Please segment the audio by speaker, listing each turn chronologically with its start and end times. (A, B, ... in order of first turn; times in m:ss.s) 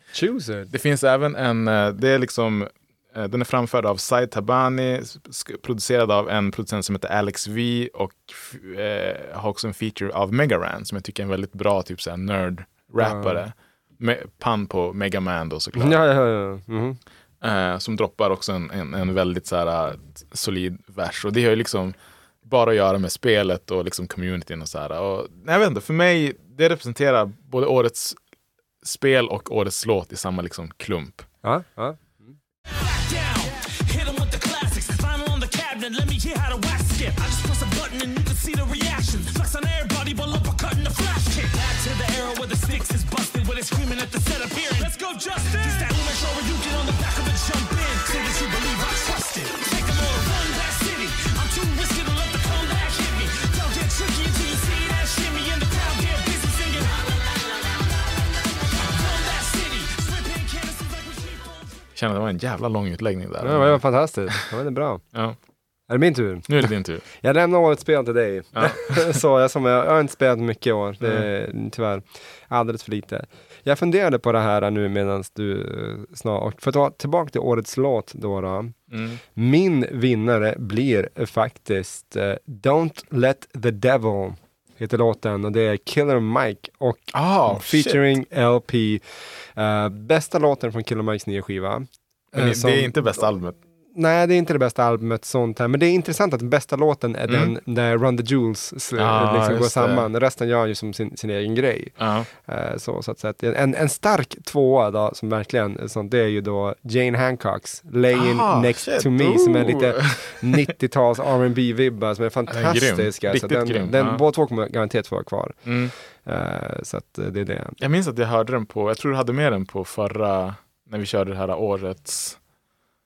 0:00.1-0:00.7 A
0:00.7-0:16.0 B
0:13.0-0:13.4 A
0:15.7-0:17.0 A
0:17.4-0:28.2 B
0:28.8-0:31.2 B
0:31.4-0:32.3 A
0:32.7-1:01.8 C
1:02.0-1:04.3 B
1:03.4-1:05.0 A
1:05.9-1:18.7 A
1:06.5-1:07.0 B
1:08.5-1:09.2 B
1:11.0-1:11.3 B
1:18.9-1:19.2 B
1:19.3-1:29.0 A
1:27.1-1:28.1 B
1:29.6-1:33.3 A
1:32.3-1:33.6 B
1:33.9-1:55.6 A
1:37.3-1:37.5 B
1:39.0-1:40.1 B
1:42.0-1:42.3 B
1:48.1-1:50.6 B
1:52.5-1:54.2 B
1:55.6-1:55.9 B
1:56.2-1:57.8 A
1:57.8-2:02.4 B